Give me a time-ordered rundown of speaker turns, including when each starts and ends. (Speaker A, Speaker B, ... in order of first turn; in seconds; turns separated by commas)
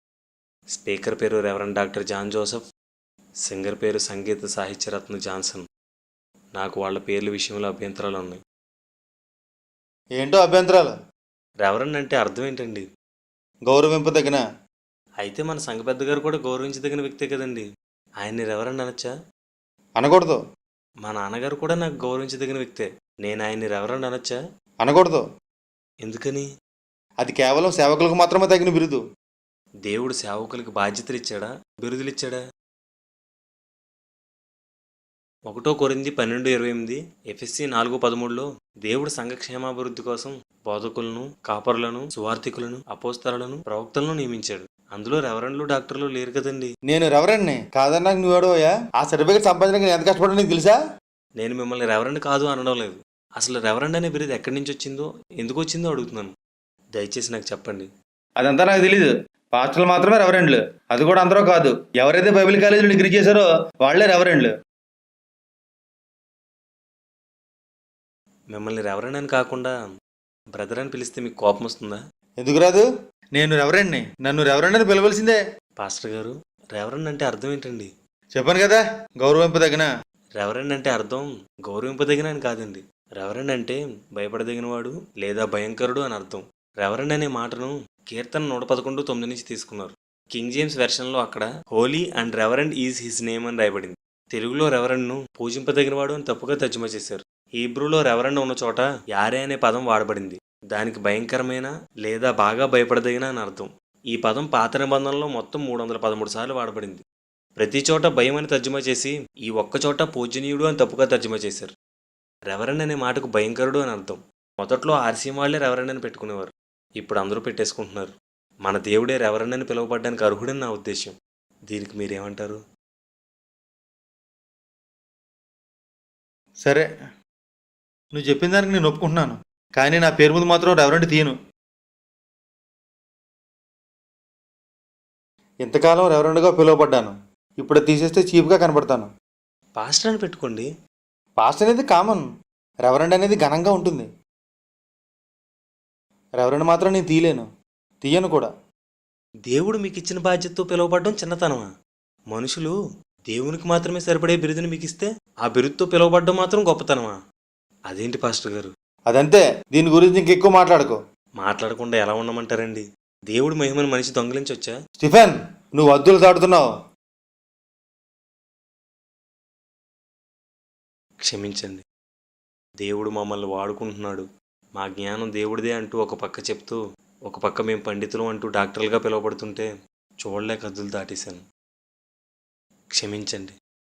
Speaker A: 0.7-2.6, Speaker A: 3.5-5.6, Speaker A: 6.5-8.4, Speaker B: 10.2-10.9, Speaker A: 11.6-12.8, Speaker B: 13.7-14.4, Speaker A: 15.2-17.6, Speaker A: 18.2-19.1, Speaker B: 20.0-20.4, Speaker A: 21.0-24.4, Speaker B: 24.8-25.2, Speaker A: 26.0-26.5, Speaker B: 27.2-29.0, Speaker A: 29.9-32.4, Speaker A: 35.5-46.7, Speaker B: 46.9-50.8, Speaker A: 51.4-56.3, Speaker A: 56.9-57.9, Speaker B: 58.4-64.5, Speaker A: 68.5-69.7, Speaker A: 70.5-72.0, Speaker B: 72.4-72.8, Speaker B: 73.3-75.4, Speaker A: 75.8-77.9, Speaker B: 78.3-79.9, Speaker A: 80.4-107.0, Speaker A: 107.6-111.7, Speaker A: 112.5-118.1, Speaker A: 118.6-121.1, Speaker A: 121.7-122.6, Speaker B: 128.1-131.3, Speaker B: 135.6-139.1, Speaker A: 139.8-140.7, Speaker B: 141.4-142.2, Speaker B: 142.8-144.1, Speaker B: 146.4-147.4, Speaker B: 148.0-148.5, Speaker A: 149.5-151.7, Speaker A: 152.3-152.7, Speaker A: 153.3-157.2, Speaker A: 157.9-158.7, Speaker B: 159.1-161.0, Speaker A: 161.4-164.8, Speaker B: 165.0-166.7, Speaker A: 171.2-171.8, Speaker A: 172.8-174.2, Speaker A: 174.8-179.7, Speaker A: 180.2-181.4, Speaker A: 182.9-183.5